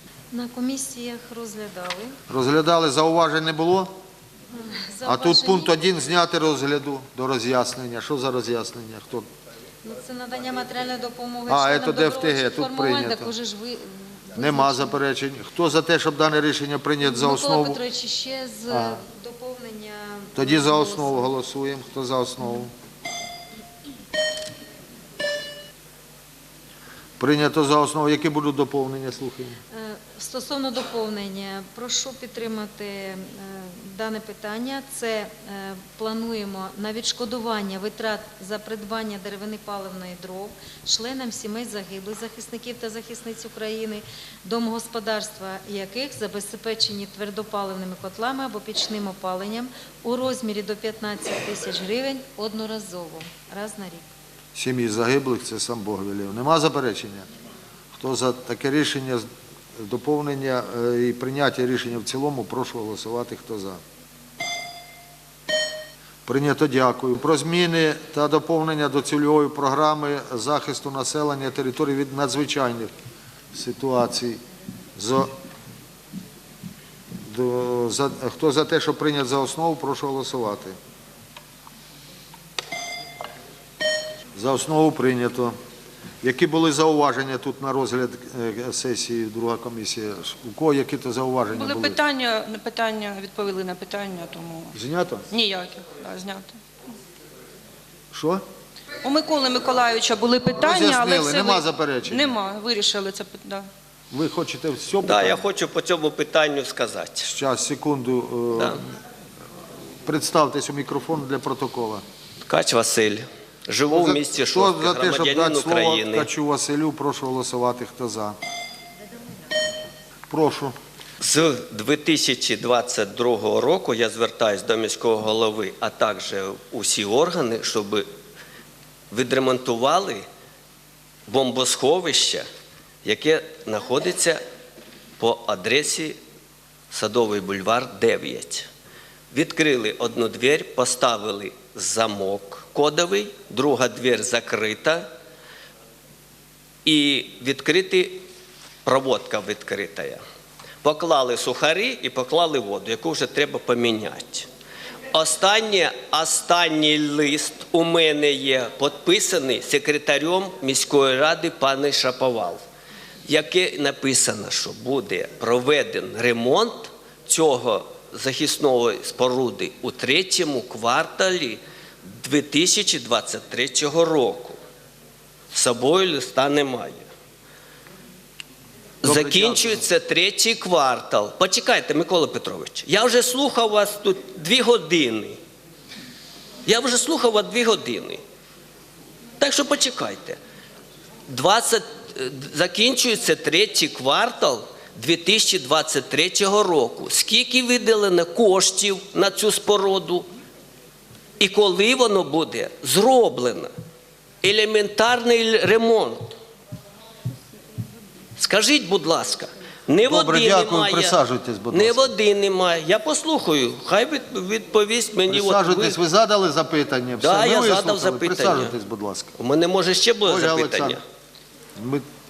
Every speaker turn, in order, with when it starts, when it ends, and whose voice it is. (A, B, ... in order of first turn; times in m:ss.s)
0:00.3-0:02.2 A
0:02.3-0:03.9 B
0:04.5-0:05.7 A
0:05.0-0:09.2 B
0:09.8-0:15.0 A
0:11.5-0:13.3 B
0:14.4-0:17.8 B
0:17.0-0:21.3 A
0:18.7-0:19.0 B
0:20.4-0:22.7 B
0:27.2-0:29.6 B
0:29.7-0:54.1 A
0:54.5-0:57.2 B
0:57.9-0:59.2 B
0:59.8-1:03.8 B
1:06.2-1:12.9 B
1:13.5-1:14.4 B
1:15.0-1:15.3 B
1:17.2-1:20.8 B
1:24.4-1:25.5 B
1:26.2-1:32.0 B
1:31.5-1:34.8 C
1:34.7-1:35.2 B
1:35.3-1:36.6 C
1:38.1-1:38.4 B
1:39.0-1:43.7 C
1:40.6-1:42.3 B
1:44.1-1:45.4 B
1:45.0-1:47.3 D
1:47.2-1:48.8 B
1:50.0-1:52.0 B
1:52.5-1:56.3 D
1:53.8-1:58.4 B
2:00.3-2:00.7 B
2:01.2-2:08.0 D
2:09.1-2:10.2 D
2:11.3-2:12.4 D
2:13.0-2:14.4 D
2:15.2-2:16.2 D
2:16.9-2:18.7 D
2:19.3-2:25.0 D
2:26.8-2:28.2 D
2:28.8-2:30.2 D
2:30.8-2:34.5 D
2:35.1-2:42.6 D
2:43.3-2:54.6 D
2:55.5-2:57.1 D
2:59.0-3:05.4 D
2:59.0-2:59.8 B
3:06.6-3:08.2 D
3:09.4-3:10.4 D
3:11.3-3:20.3 D
3:21.4-3:23.7 D
3:24.4-3:26.3 D
3:28.4-3:31.2 D
3:30.0-3:32.1 B
3:31.7-3:36.0 D
3:35.3-3:39.3 B
3:37.2-3:38.8 D
3:39.4-3:41.0 D
3:40.3-3:41.0 B
3:41.8-3:42.0 B